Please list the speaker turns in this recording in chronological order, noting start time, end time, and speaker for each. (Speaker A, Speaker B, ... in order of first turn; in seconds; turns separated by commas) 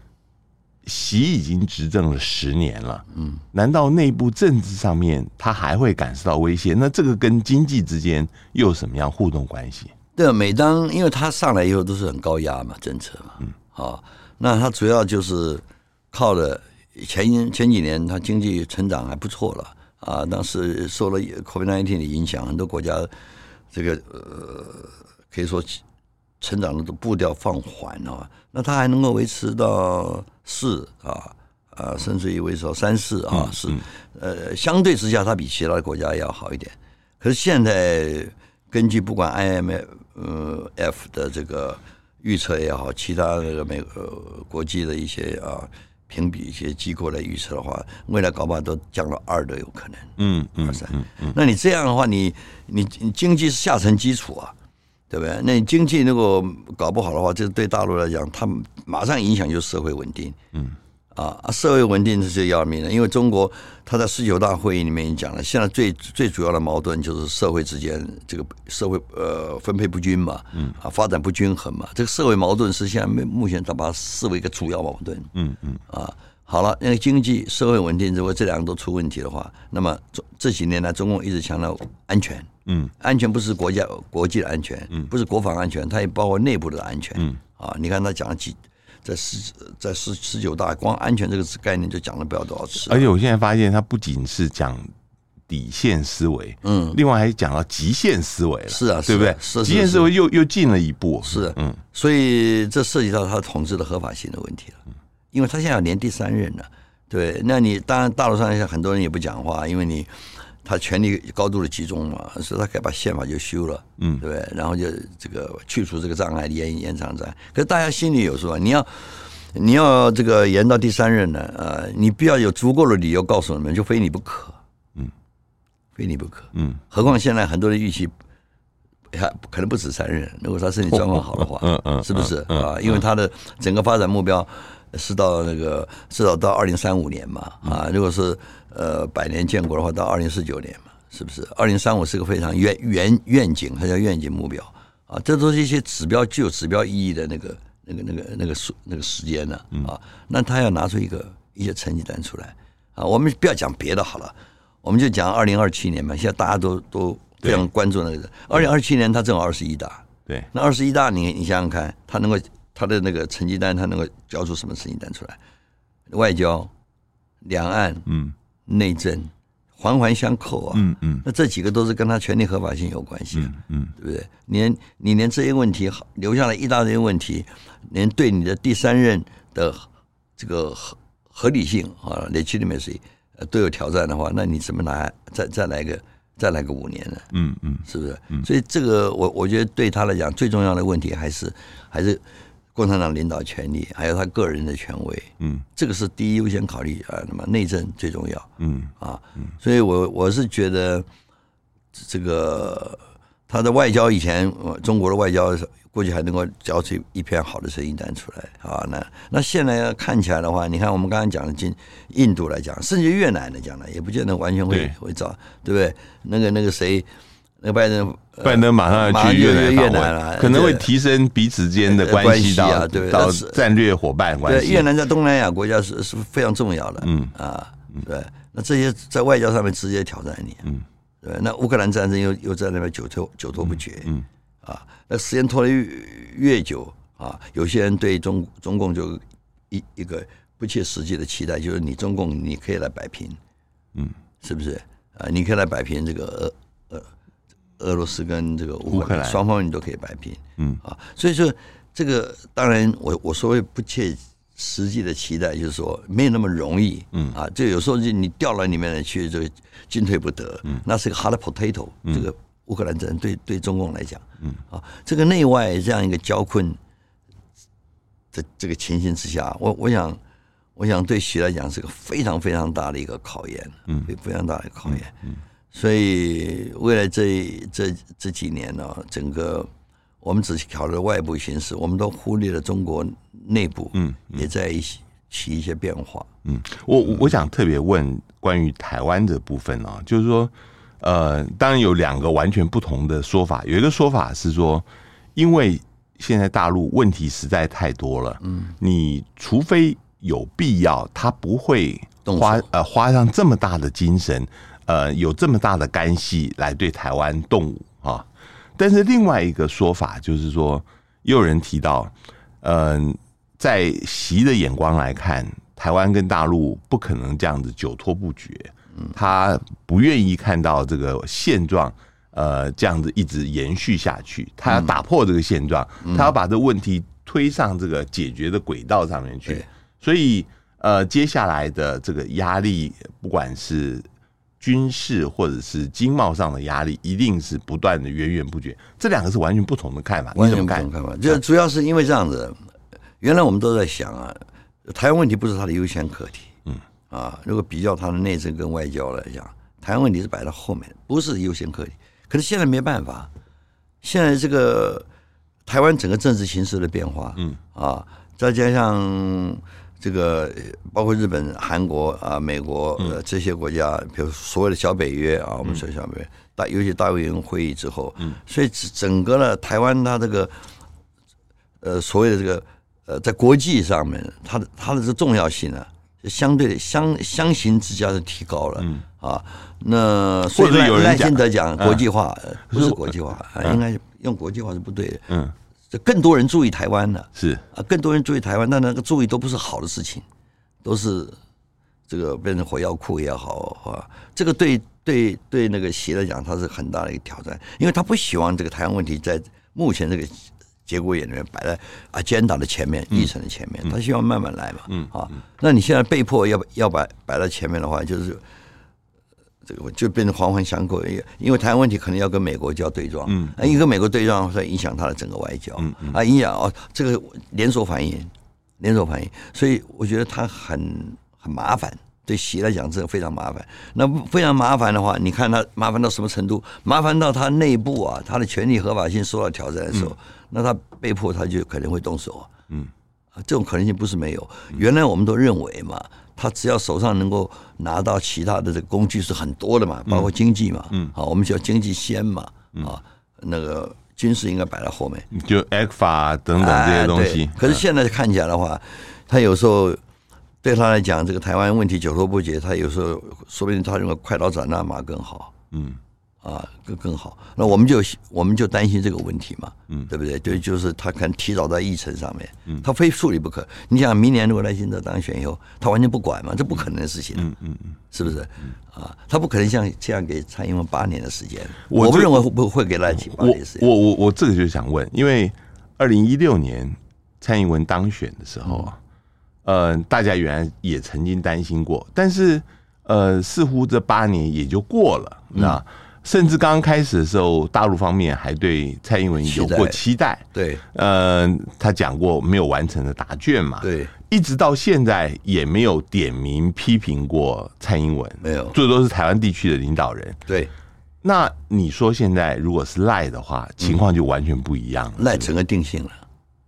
Speaker A: 0.8-9.9, Speaker B: 3.1-3.4, Speaker B: 10.2-23.1, Speaker B: 23.7-25.8, Speaker B: 26.4-54.5, Speaker A: 33.3-33.8, Speaker A: 50.2-51.3, Speaker B: 55.1-60.4, Speaker B: 61.1-75.3, Speaker A: 75.3-75.8, Speaker B: 75.9-93.1, Speaker A: 82.7-82.9, Speaker A: 92.8-94.9, Speaker A: 95.5-101.8, Speaker B: 96.6-97.0, Speaker B: 98.7-100.1, Speaker B: 101.2-104.8, Speaker B: 105.3-124.6, Speaker B: 126.0-128.1, Speaker B: 129.1-165.4, Speaker A: 130.9-133.0, Speaker B: 166.1-166.7, Speaker B: 167.4-168.1, Speaker A: 168.1-168.3, Speaker B: 168.7-187.3, Speaker A: 170.7-171.2, Speaker A: 173.3-173.9, Speaker A: 187.3-188.4, Speaker B: 187.8-201.1, Speaker A: 198.6-198.9, Speaker B: 201.9-217.1, Speaker A: 214.7-214.9, Speaker B: 217.6-220.9, Speaker A: 218.4-224.9, Speaker B: 221.8-223.6, Speaker B: 224.4-230.7, Speaker A: 227.0-227.3, Speaker B: 231.2-243.4, Speaker A: 233.6-234.2, Speaker B: 244.4-247.1, Speaker B: 247.8-266.8, Speaker A: 248.9-249.4, Speaker B: 268.3-270.2, Speaker B: 270.8-275.1, Speaker B: 275.7-279.7, Speaker B: 280.2-286.3, Speaker A: 283.9-284.4, Speaker A: 286.4-334.1, Speaker B: 298.4-298.7, Speaker B: 302.2-302.6, Speaker B: 324.7-324.9, Speaker B: 326.0-326.3, Speaker A: 334.6-341.4, Speaker B: 340.3-342.6, Speaker B: 343.2-346.5, Speaker B: 347.1-353.3, Speaker B: 354.0-355.1, Speaker B: 355.6-370.6, Speaker B: 371.8-385.3, Speaker A: 378.8-379.0, Speaker A: 380.5-382.0, Speaker A: 382.7-383.8, Speaker A: 385.3-385.5, Speaker B: 385.9-390.2, Speaker A: 387.4-387.6, Speaker B: 390.8-391.4, Speaker B: 392.1-408.4, Speaker B: 409.6-432.5, Speaker A: 413.3-413.7, Speaker A: 415.8-416.2, Speaker B: 433.4-445.3, Speaker A: 445.3-447.8, Speaker B: 446.6-450.0, Speaker B: 450.6-455.5, Speaker A: 455.7-456.0, Speaker B: 456.4-467.5, Speaker A: 467.4-468.0, Speaker B: 468.1-473.9, Speaker A: 471.9-472.5, Speaker A: 473.1-479.0, Speaker A: 479.6-500.4, Speaker B: 485.5-485.8, Speaker B: 489.4-490.0, Speaker B: 490.5-490.8, Speaker B: 493.8-494.1, Speaker B: 498.4-498.8, Speaker B: 500.5-500.7, Speaker A: 501.2-505.5, Speaker B: 505.2-506.2